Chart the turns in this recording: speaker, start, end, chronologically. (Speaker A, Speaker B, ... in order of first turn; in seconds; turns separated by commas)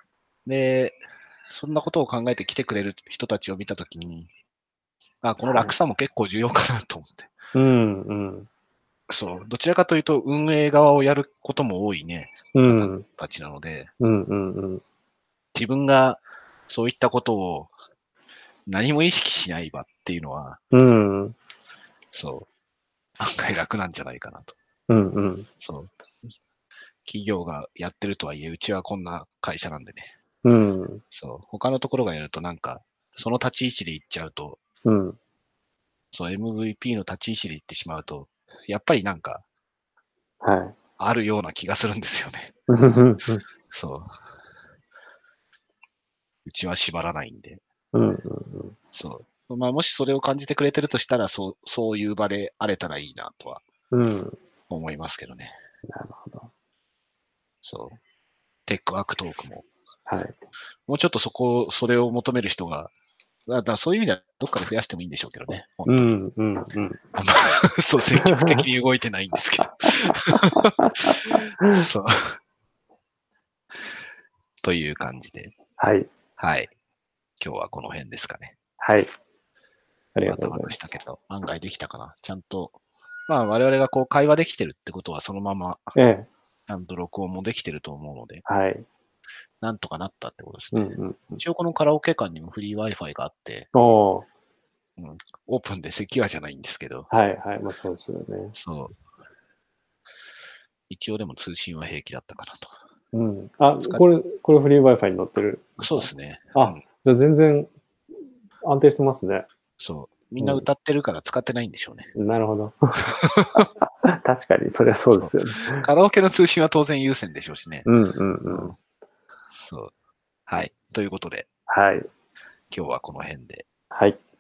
Speaker A: 0.5-4.3, Speaker A: 5.2-7.3, Speaker B: 5.5-5.7, Speaker B: 7.5-8.5, Speaker A: 9.1-13.9, Speaker B: 12.5-13.1, Speaker B: 14.0-14.8, Speaker A: 15.5-17.7, Speaker A: 18.7-20.6, Speaker B: 20.7-21.4, Speaker A: 22.1-22.5, Speaker A: 23.2-24.6, Speaker B: 24.9-25.5, Speaker A: 25.6-25.9, Speaker A: 27.1-30.1, Speaker B: 30.4-31.0, Speaker A: 31.1-34.6, Speaker B: 34.9-35.2, Speaker A: 36.1-39.4, Speaker B: 40.4-40.8, Speaker A: 41.0-42.5, Speaker B: 42.7-43.4, Speaker A: 43.7-44.1, Speaker A: 46.5-47.6, Speaker B: 47.9-48.8, Speaker A: 48.9-53.6, Speaker B: 53.9-54.4, Speaker A: 54.7-55.6, Speaker B: 55.9-56.5, Speaker A: 57.6-58.0, Speaker A: 58.7-59.7, Speaker B: 60.1-60.4, Speaker A: 60.9-62.9, Speaker A: 63.5-66.2, Speaker B: 65.9-67.0, Speaker A: 67.2-72.4, Speaker B: 68.2-68.6, Speaker B: 69.9-71.8, Speaker A: 74.6-75.5, Speaker B: 75.8-76.1, Speaker A: 76.4-76.7, Speaker A: 77.4-78.5, Speaker B: 78.8-79.1, Speaker B: 80.2-80.9, Speaker A: 80.3-85.9, Speaker B: 86.0-86.3, Speaker A: 86.7-88.4, Speaker B: 88.5-88.9, Speaker A: 89.6-93.7, Speaker B: 90.7-91.4, Speaker B: 93.7-94.3, Speaker A: 95.0-97.1, Speaker B: 97.1-98.5, Speaker A: 98.5-99.0, Speaker A: 100.9-102.8, Speaker B: 103.1-107.7, Speaker A: 105.8-106.8, Speaker B: 108.7-109.5, Speaker A: 109.8-112.1, Speaker B: 110.4-110.7, Speaker B: 112.2-113.0, Speaker A: 113.2-113.7, Speaker B: 113.5-115.9, Speaker A: 115.1-117.9, Speaker B: 117.9-118.8, Speaker A: 118.5-118.8, Speaker A: 119.5-119.9, Speaker A: 120.5-121.5, Speaker B: 121.7-122.1, Speaker A: 122.7-123.7, Speaker B: 123.9-124.2